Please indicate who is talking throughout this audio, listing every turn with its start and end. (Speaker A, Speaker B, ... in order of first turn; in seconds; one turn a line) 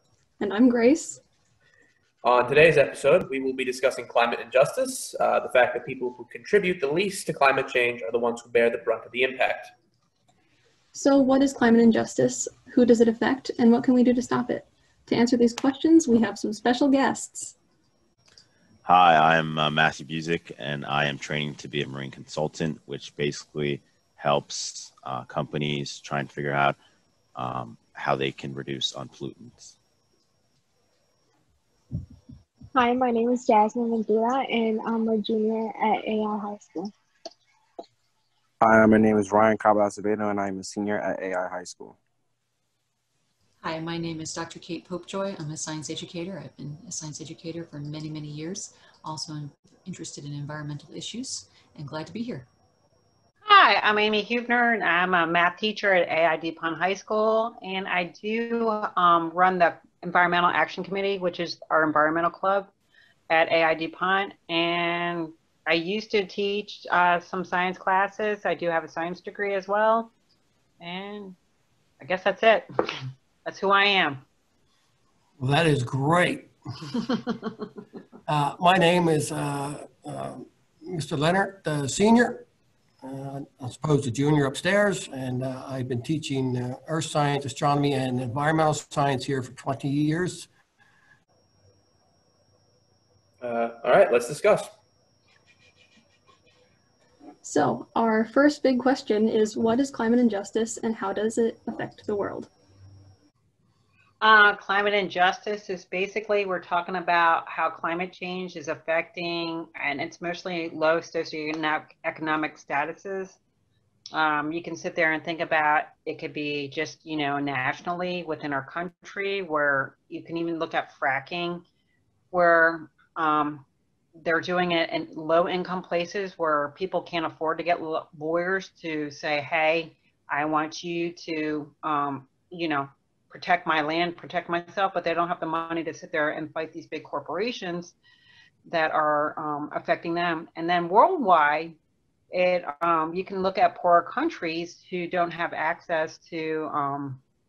Speaker A: 0.4-1.2
Speaker B: 2.2-9.7
Speaker A: 10.9-17.6
Speaker C: 18.9-26.8
Speaker C: 27.4-29.8
Speaker D: 32.8-36.9
Speaker E: 38.6-42.0
Speaker F: 43.6-52.5
Speaker G: 53.5-62.7
Speaker G: 63.3-70.1
Speaker G: 70.8-71.4
Speaker G: 72.0-74.2
Speaker H: 75.4-76.5
Speaker H: 78.3-82.5
Speaker H: 83.0-90.5
Speaker B: 93.4-94.7
Speaker A: 97.4-102.5
Speaker G: 104.2-113.4
Speaker G: 114.1-121.7
Speaker G: 122.3-123.7
Speaker G: 124.2-137.9
Speaker G: 138.7-141.8
Speaker G: 142.3-147.2